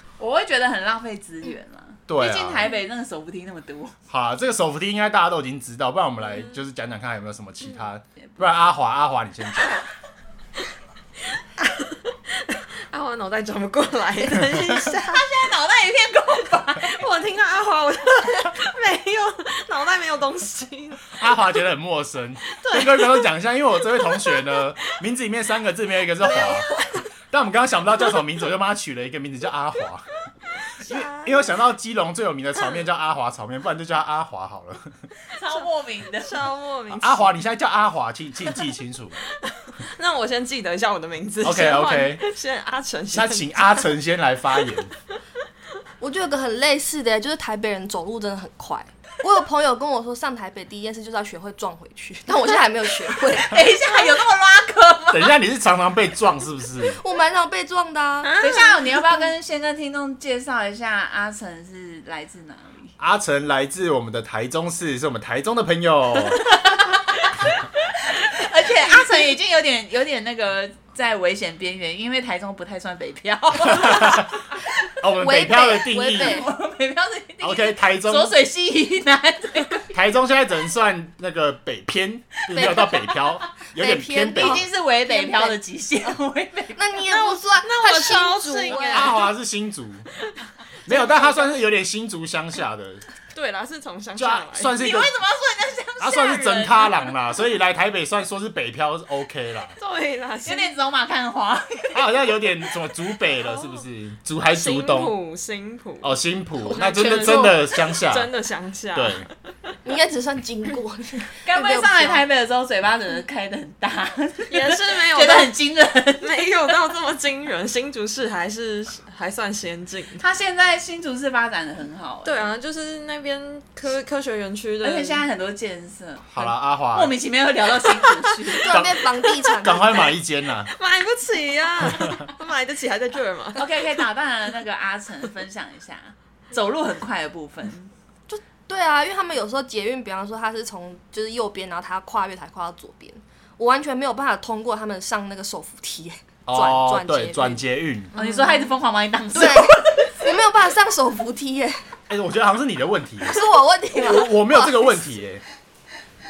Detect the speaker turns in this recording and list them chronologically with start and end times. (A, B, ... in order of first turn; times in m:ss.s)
0:00.2-0:04.0 A
0:02.1-0:02.7 B
0:04.1-0:09.8 B
0:11.6-0:15.3 C
0:15.1-0:17.0 A
0:16.8-0:21.2 C
0:21.2-0:26.7 B
0:22.6-0:24.6 C
0:26.3-0:27.0 D
0:26.4-0:26.6 C
0:27.3-0:30.2 B
0:30.8-0:34.9 B
0:30.8-0:31.6 C
0:35.3-0:36.4 A
0:36.2-0:37.4 C
0:36.9-0:39.2 B
0:39.5-0:43.8 C
0:41.4-0:42.2 B
0:43.1-0:44.9 B
0:46.0-0:53.8 D
0:53.4-0:55.3 A
0:55.1-0:57.0 B
0:56.8-0:58.5 D
0:58.2-0:58.8 C
0:58.4-1:02.9 A
1:03.0-1:06.6 B
1:06.6-1:07.0 A
1:07.8-1:14.3 A
1:13.6-1:14.4 B
1:15.0-1:16.5 B
1:15.2-1:16.5 D
1:16.0-1:19.9 A
1:17.4-1:18.4 B
1:19.9-1:24.6 B
1:22.5-1:22.9 D
1:22.6-1:23.2 A
1:23.7-1:25.6 D
1:24.4-1:27.1 A
1:26.8-1:29.3 D
1:27.2-1:29.3 C
1:28.7-1:30.1 B
1:30.9-1:33.0 B
1:30.9-1:31.3 D
1:33.3-1:34.8 C
1:34.2-1:35.2 B
1:34.8-1:37.1 A
1:36.0-1:39.8 B
1:39.8-1:40.7 C
1:40.4-1:42.2 A
1:41.9-1:45.1 B
1:43.4-1:43.9 C
1:44.5-1:49.3 C
1:46.0-1:48.3 B
1:46.8-1:47.5 D
1:48.9-1:49.3 B
1:49.8-1:52.2 D
1:51.4-1:56.3 A
1:54.5-1:55.5 C
1:56.2-2:00.2 C
2:00.2-2:02.5 A
2:02.2-2:05.2 C
2:04.8-2:08.7 A
2:06.3-2:07.1 B
2:08.6-2:10.2 D
2:08.7-2:10.7 B
2:09.2-2:09.6 C
2:10.7-2:13.7 C
2:13.6-2:17.9 A
2:18.3-2:27.6 D
2:26.5-2:28.1 B
2:28.2-2:28.7 C
2:28.2-2:30.1 A
2:29.3-2:31.8 D
2:32.1-2:35.4 B
2:33.2-2:35.0 D